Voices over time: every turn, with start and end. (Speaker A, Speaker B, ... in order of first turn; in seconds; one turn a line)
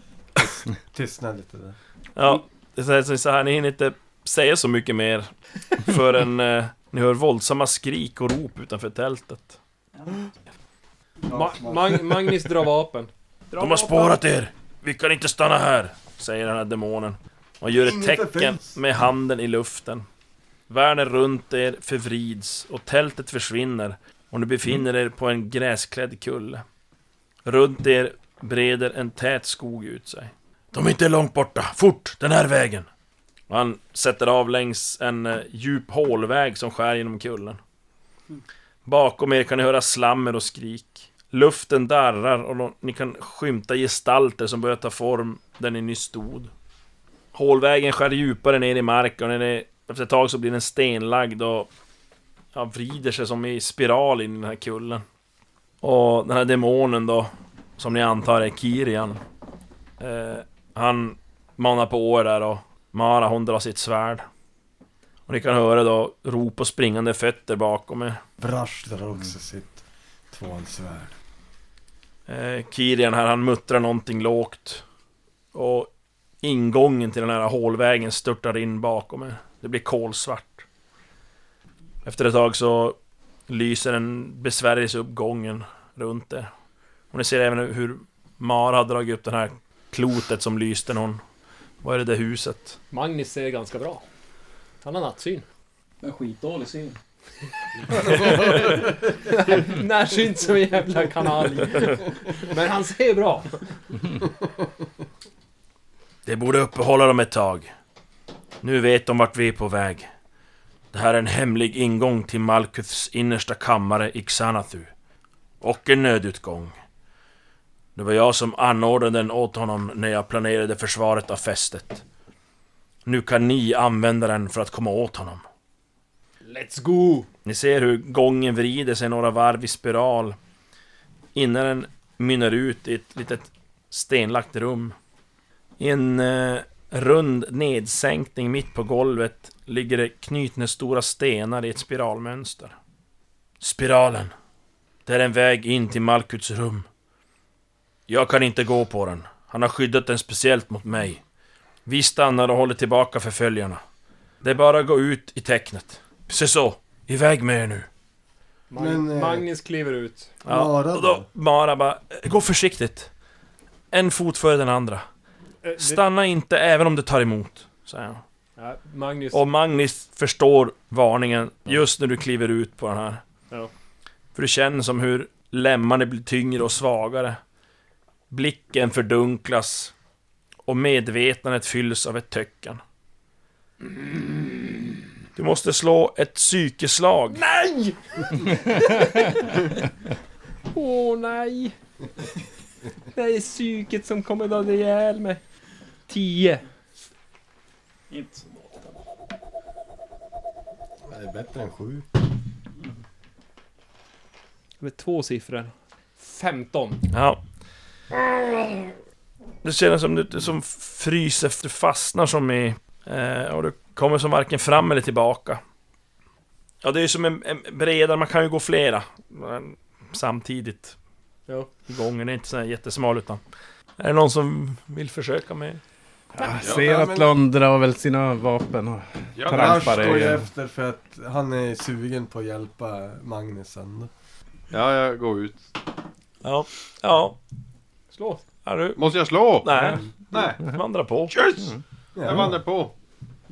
Speaker A: 0.4-1.8
Speaker B: 2.2-9.6
Speaker C: 10.0-10.3
Speaker A: 11.3-12.1
Speaker D: 11.3-13.1
Speaker C: 13.5-14.2
Speaker B: 13.6-20.1
Speaker A: 17.8-18.7
Speaker B: 20.7-26.6
Speaker B: 27.4-32.9
Speaker B: 33.5-37.6
Speaker B: 38.9-46.5
Speaker B: 47.3-51.7
Speaker B: 52.5-55.0
Speaker B: 55.8-59.2
Speaker B: 60.0-64.2
Speaker B: 65.3-68.2
Speaker A: 68.4-71.2
Speaker B: 72.3-74.8
Speaker B: 75.5-75.9
Speaker B: 76.4-80.7
Speaker B: 82.0-83.0
Speaker B: 83.5-86.5
Speaker B: 87.1-91.2
Speaker B: 91.8-92.8
Speaker D: 92.9-94.0
Speaker D: 94.8-95.4
Speaker C: 96.0-97.0
Speaker D: 98.1-98.6
Speaker D: 99.3-103.6
Speaker B: 106.3-107.7
Speaker B: 108.6-110.1
Speaker B: 110.9-114.9
Speaker B: 115.6-116.7
Speaker B: 118.0-122.0
Speaker B: 123.1-125.4
Speaker D: 126.5-127.3
Speaker B: 127.5-130.4
Speaker B: 131.3-134.9
Speaker B: 135.8-142.8
Speaker B: 143.6-144.3
Speaker B: 145.1-146.9
Speaker B: 148.1-151.2
Speaker B: 151.9-153.8
Speaker B: 154.4-157.9
Speaker D: 158.7-160.3
Speaker A: 158.8-159.5
Speaker A: 160.4-161.3
Speaker B: 160.4-163.1
Speaker B: 163.9-165.1
Speaker D: 165.6-166.0
Speaker B: 165.8-168.2
Speaker D: 168.6-169.4
Speaker B: 169.3-173.2
Speaker B: 174.4-177.4
Speaker B: 178.3-179.9
Speaker B: 180.7-182.8
Speaker B: 185.3-187.4
Speaker D: 187.3-189.6
Speaker D: 190.7-191.7
Speaker D: 193.1-195.4
Speaker D: 196.1-196.7
Speaker C: 198.1-199.0
Speaker A: 201.1-202.1
Speaker D: 204.8-207.0
Speaker B: 207.1-207.4
Speaker B: 208.2-208.9
Speaker B: 209.6-215.6
Speaker B: 216.8-221.0
Speaker B: 221.9-223.4
Speaker B: 224.0-225.8
Speaker E: 226.3-230.5
Speaker F: 226.6-226.9
Speaker A: 226.7-227.3
Speaker F: 229.4-230.2
Speaker A: 229.5-234.1
Speaker F: 234.7-235.7
Speaker B: 236.4-237.4
Speaker D: 238.1-238.4
Speaker B: 238.7-241.5
Speaker F: 239.0-240.7
Speaker F: 241.3-242.9
Speaker A: 242.2-242.5